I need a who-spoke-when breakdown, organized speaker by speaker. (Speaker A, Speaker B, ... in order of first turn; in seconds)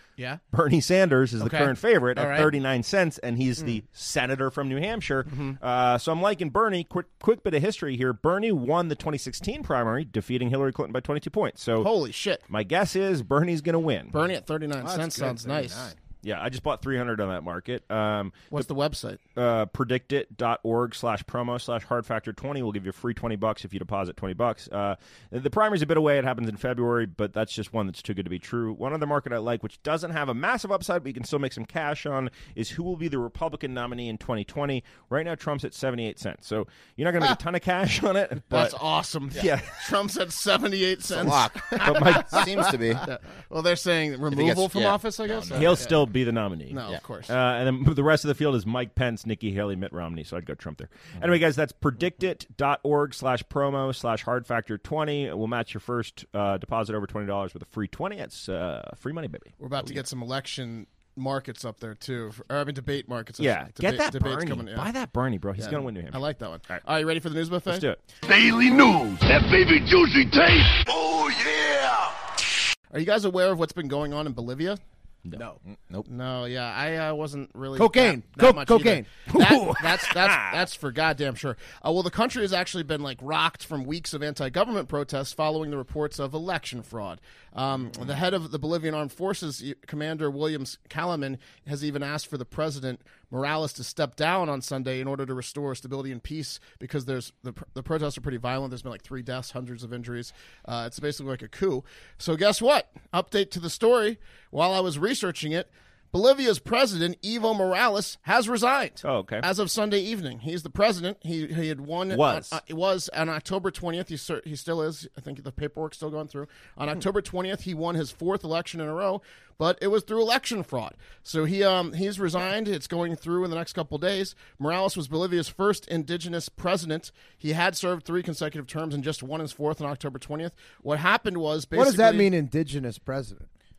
Speaker A: 0.5-11.9, 12.5-14.2, 16.2-18.7, 19.4-38.8, 39.3-39.9, 41.8-42.4, 45.5-60.0, 63.4-66.8, 67.7-68.0, 79.3-80.6, 109.0-109.5, 112.1-112.6
Speaker B: 1.4-2.5, 5.3-5.6, 11.8-12.4, 14.1-15.9, 18.5-19.2, 38.5-42.4, 43.0-46.0, 46.7-47.3, 59.6-64.9, 65.6-67.9, 72.9-74.8, 76.1-132.3
Speaker C: 14.8-16.0, 75.3-75.6, 77.8-79.1, 131.7-133.5
Speaker D: 41.1-43.0, 44.3-45.9, 75.7-76.1
Speaker E: 68.3-72.2